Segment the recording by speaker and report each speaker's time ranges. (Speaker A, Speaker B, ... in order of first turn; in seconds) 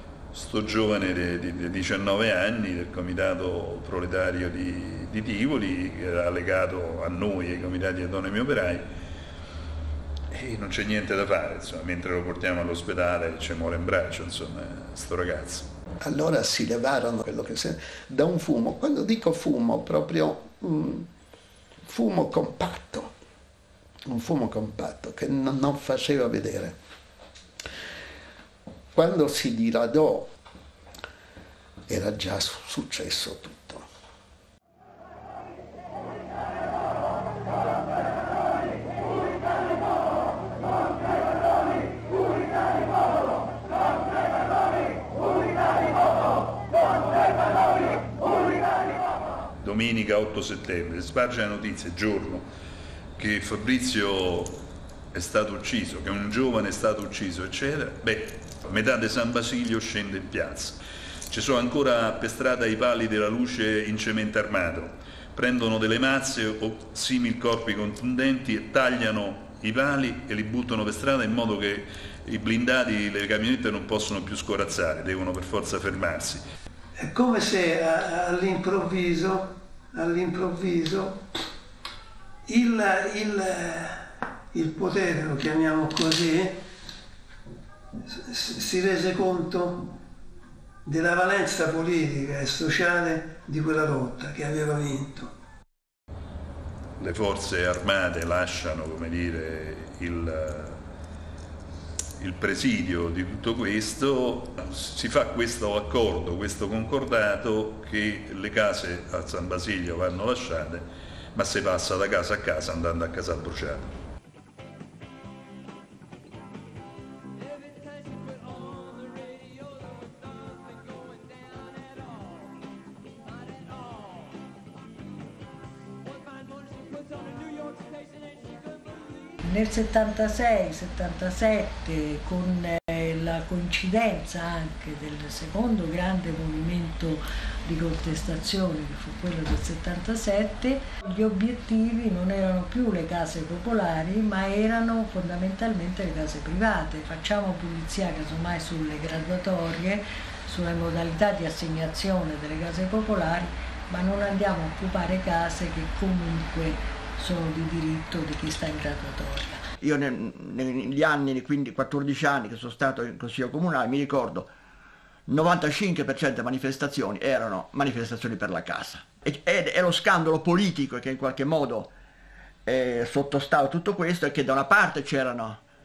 Speaker A: 0.3-8.9, 10.3-15.7, 49.6-52.5, 53.2-54.6, 55.1-60.8, 61.3-76.4, 97.0-100.8, 102.2-113.9
Speaker B: 16.0-21.1, 21.9-23.1, 24.1-26.8, 28.9-30.3, 31.9-33.9
Speaker C: 77.0-81.2, 82.5-86.7, 88.0-90.0, 90.8-95.3
Speaker D: 129.4-159.6
Speaker E: 159.8-164.5, 165.3-171.9, 172.7-175.6